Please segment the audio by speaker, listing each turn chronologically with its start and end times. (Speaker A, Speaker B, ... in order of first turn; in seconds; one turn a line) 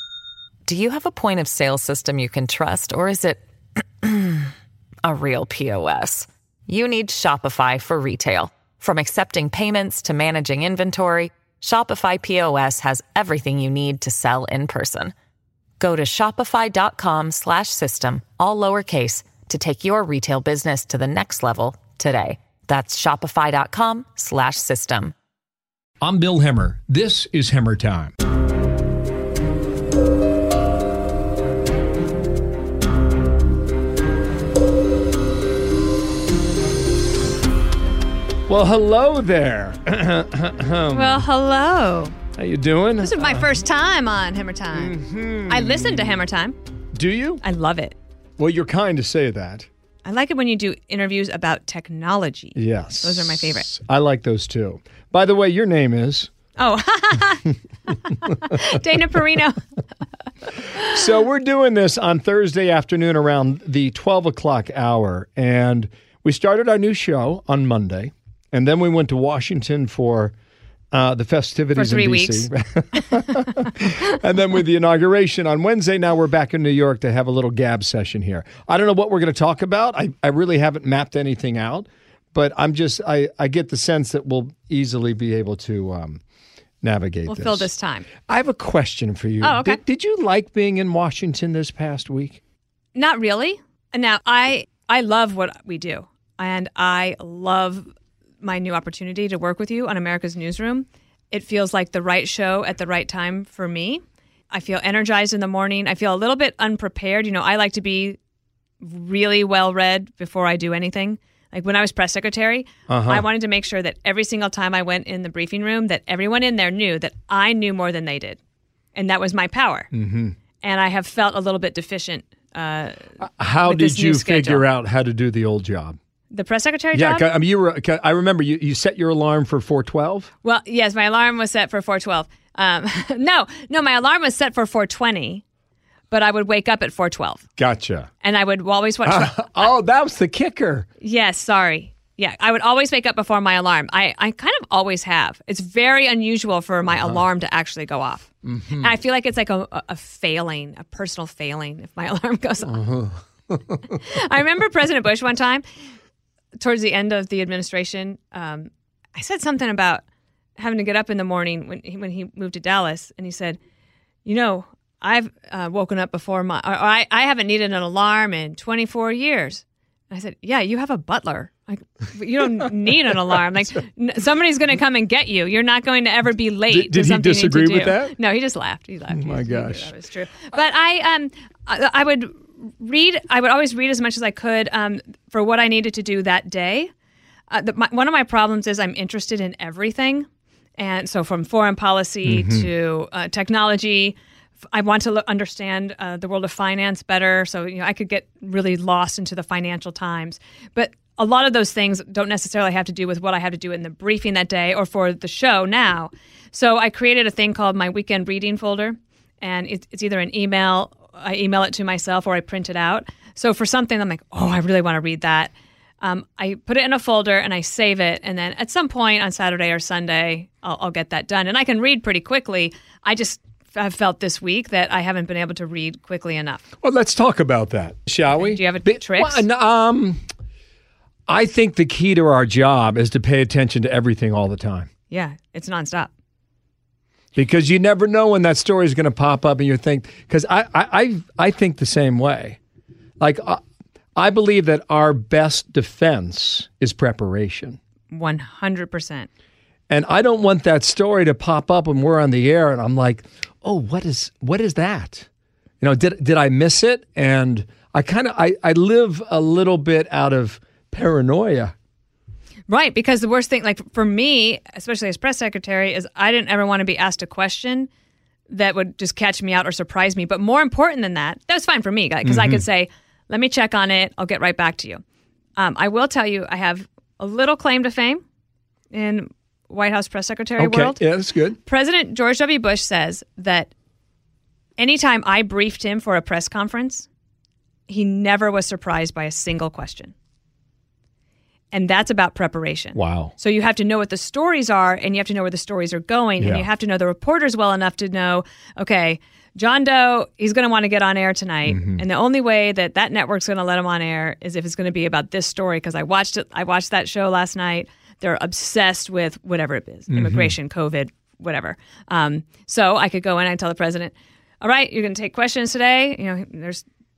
Speaker A: 0.7-3.4
Speaker A: 4.0-4.5
Speaker A: 5.0-15.1
Speaker A: 15.8-25.1
Speaker B: 26.0-28.1
Speaker B: 38.5-41.2
Speaker C: 40.9-42.2
Speaker B: 42.4-43.5
Speaker C: 43.0-46.6
Speaker B: 44.7-46.2
Speaker B: 46.9-47.4
Speaker C: 47.4-48.0
Speaker B: 48.4-49.7
Speaker C: 50.0-53.7
Speaker B: 52.6-56.3
Speaker C: 56.6-59.6
Speaker C: 60.8-61.0
Speaker B: 60.8-70.3
Speaker B: 70.9-86.2
Speaker C: 71.7-72.5
Speaker B: 86.8-87.7
Speaker C: 87.3-88.1
Speaker B: 88.3-92.4
Speaker C: 89.4-89.8
Speaker C: 93.0-97.9
Speaker C: 98.4-108.2
Speaker C: 108.8-118.4
Speaker B: 112.9-113.3
Speaker C: 119.0-119.9
Speaker B: 119.9-120.3
Speaker C: 120.6-123.1
Speaker B: 123.2-126.0
Speaker C: 123.6-124.7
Speaker C: 126.3-127.3
Speaker B: 126.9-130.3
Speaker C: 130.4-135.4
Speaker C: 136.1-137.5
Speaker B: 137.6-138.1
Speaker C: 138.2-139.7
Speaker B: 139.1-140.9
Speaker C: 141.0-152.8
Speaker B: 146.9-147.2
Speaker B: 148.4-148.9
Speaker B: 152.7-154.0
Speaker C: 153.9-155.6
Speaker C: 156.6-160.0
Speaker C: 160.6-163.6
Speaker C: 164.2-186.9
Speaker B: 176.7-178.2
Speaker B: 179.1-179.9
Speaker C: 187.5-190.3
Speaker C: 190.8-194.2
Speaker B: 192.2-192.7
Speaker C: 194.7-226.7
Speaker B: 226.8-230.2
Speaker C: 228.4-229.5
Speaker B: 231.3-234.9
Speaker C: 235.1-236.1
Speaker B: 237.3-242.6
Speaker B: 243.2-243.6
Speaker B: 244.2-247.8
Speaker C: 248.1-249.3
Speaker B: 249.9-255.3
Speaker B: 255.8-261.7
Speaker C: 262.7-267.9
Speaker C: 268.5-275.0
Speaker B: 272.2-272.6
Speaker C: 275.6-278.2
Speaker C: 278.9-281.0
Speaker B: 280.6-281.6
Speaker C: 281.7-283.7
Speaker C: 284.8-287.1
Speaker C: 287.9-290.1
Speaker C: 291.7-316.9
Speaker B: 293.0-293.3
Speaker B: 296.4-296.7
Speaker B: 301.7-302.0
Speaker B: 310.1-310.6